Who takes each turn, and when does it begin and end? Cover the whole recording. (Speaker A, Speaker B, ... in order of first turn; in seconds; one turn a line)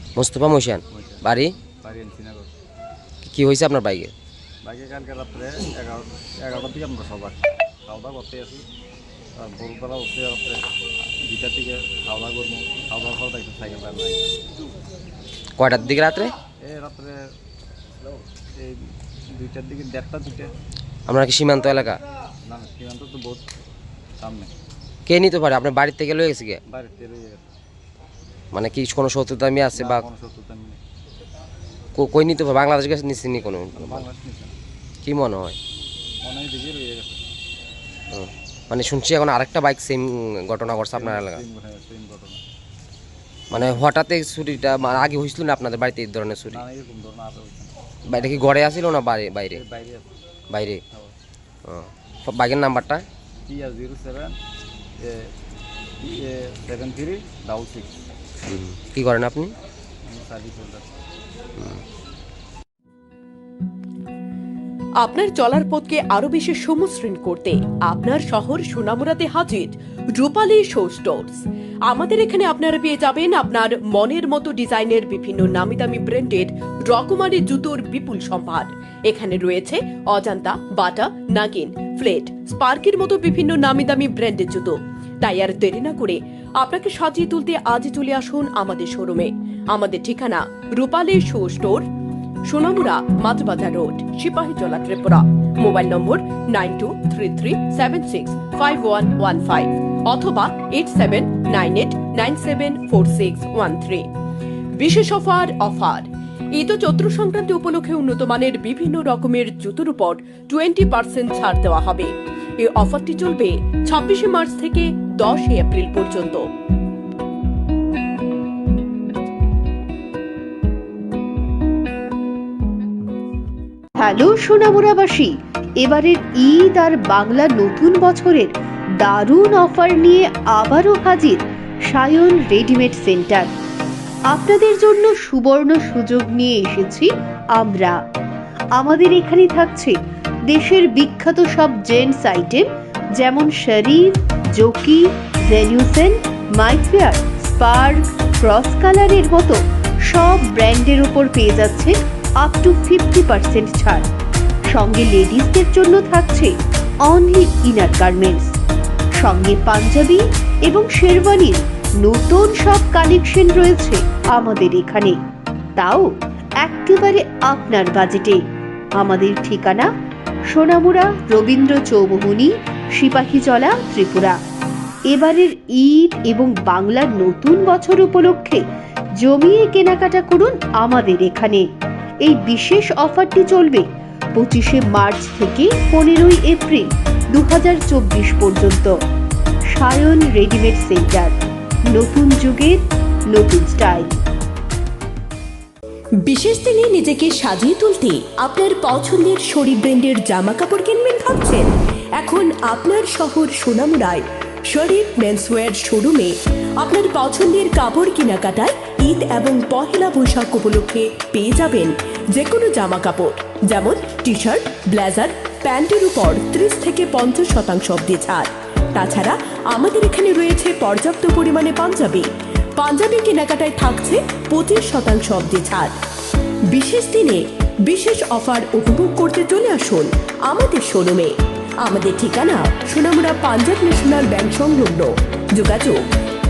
Speaker A: 0.1-1.6
Speaker B: 0.9-1.2
Speaker B: 1.8-2.5
Speaker A: 3.2-4.1
Speaker B: 4.6-8.7
Speaker B: 9.4-10.6
Speaker B: 11.2-14.3
Speaker A: 15.6-16.3
Speaker B: 16.6-17.2
Speaker B: 19.3-20.5
Speaker A: 21.1-22.0
Speaker B: 22.4-23.4
Speaker B: 24.2-24.5
Speaker A: 25.1-26.6
Speaker B: 26.7-27.5
Speaker A: 28.5-30.0
Speaker B: 29.7-30.8
Speaker A: 31.9-34.0
Speaker B: 33.7-34.5
Speaker A: 35.0-35.6
Speaker B: 36.2-37.2
Speaker A: 38.1-41.4
Speaker B: 40.9-42.4
Speaker A: 43.5-46.6
Speaker B: 46.5-48.6
Speaker A: 48.1-49.6
Speaker B: 49.5-50.1
Speaker A: 50.5-50.8
Speaker A: 51.6-53.0
Speaker B: 53.5-54.4
Speaker B: 55.0-55.3
Speaker B: 56.0-58.0
Speaker A: 58.5-59.5
Speaker B: 60.0-60.9
Speaker C: 65.0-91.9
Speaker C: 92.5-104.1
Speaker C: 104.8-116.4
Speaker D: 124.0-133.5
Speaker D: 134.3-137.9
Speaker D: 138.8-140.0
Speaker D: 140.5-142.6
Speaker D: 143.2-149.6
Speaker D: 150.1-154.0
Speaker D: 154.7-156.5
Speaker D: 157.1-158.6
Speaker D: 159.2-165.2
Speaker D: 165.8-166.1
Speaker D: 166.6-168.4
Speaker D: 169.0-169.9
Speaker D: 170.5-174.4
Speaker D: 175.1-178.6
Speaker D: 179.2-181.7
Speaker D: 182.2-188.9
Speaker D: 189.7-191.3
Speaker D: 191.9-194.2
Speaker C: 196.2-225.9
Speaker C: 226.7-236.0